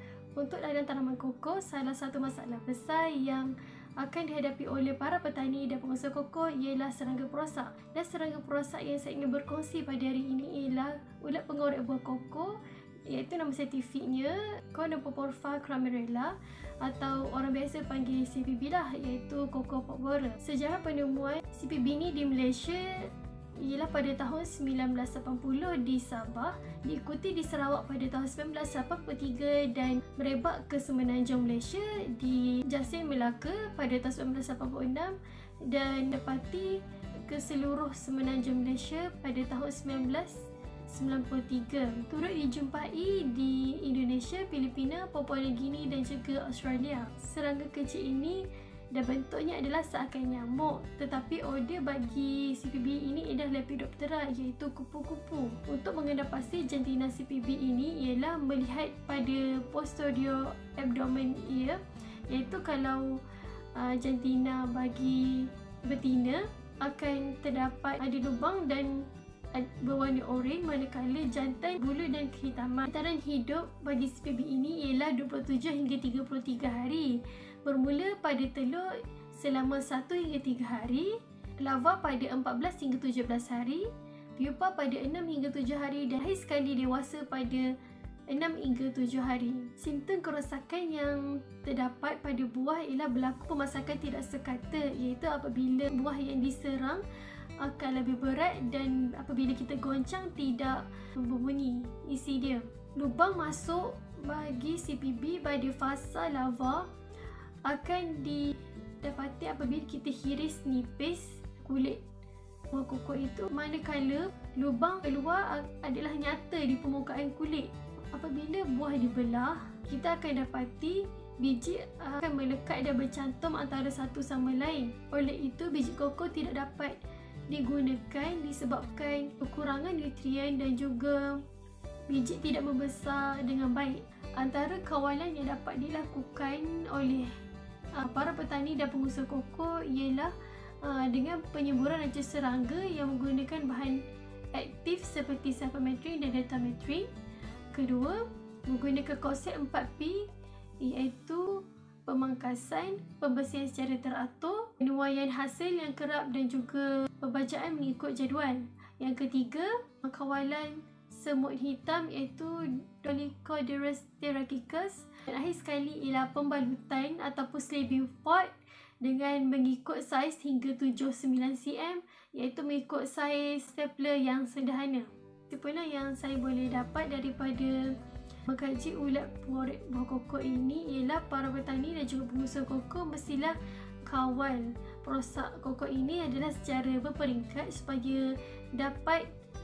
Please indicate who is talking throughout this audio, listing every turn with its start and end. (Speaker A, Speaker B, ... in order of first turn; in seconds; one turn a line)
Speaker A: 0.4-63.2
Speaker A: 63.8-87.7
Speaker A: 88.3-97.0
Speaker A: 97.6-106.9
Speaker A: 107.7-112.0
Speaker A: 112.7-131.4
Speaker A: 132.1-137.3
Speaker A: 138.0-147.1
Speaker A: 147.7-150.3
Speaker A: 150.8-189.3